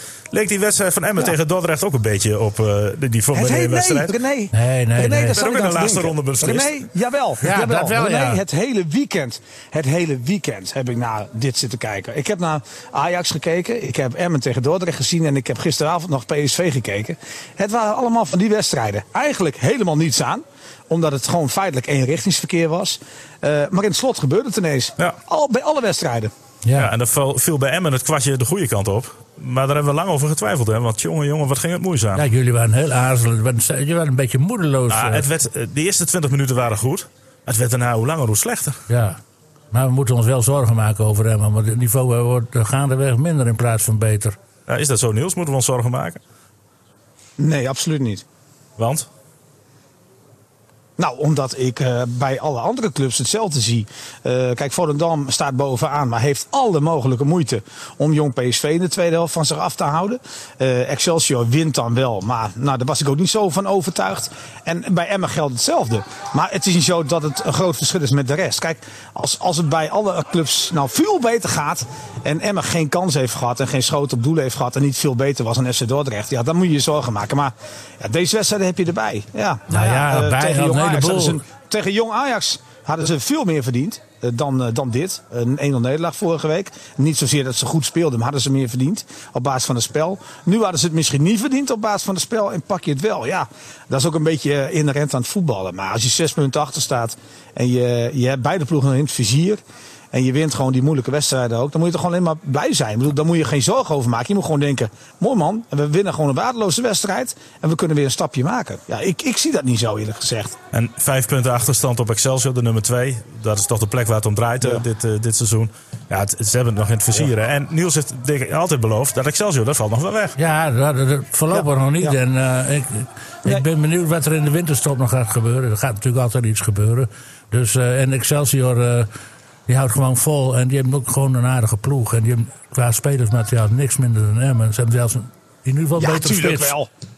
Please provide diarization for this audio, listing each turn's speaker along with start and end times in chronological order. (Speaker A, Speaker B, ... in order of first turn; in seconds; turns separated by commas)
Speaker A: 0.3-4.1, Speaker B: 3.3-26.3, Speaker C: 4.5-5.4, Speaker A: 5.3-6.8, Speaker C: 7.4-8.4, Speaker C: 26.6-26.9, Speaker A: 26.7-32.2, Speaker C: 32.1-35.3, Speaker A: 34.9-38.8, Speaker C: 38.9-39.2, Speaker C: 39.7-44.4, Speaker A: 44.7-46.2, Speaker B: 47.4-48.2, Speaker A: 48.8-49.1, Speaker B: 51.0-110.6, Speaker C: 79.7-81.4, Speaker A: 110.7-120.4, Speaker C: 120.4-129.1, Speaker B: 121.5-122.2, Speaker C: 129.7-136.8, Speaker B: 136.0-136.9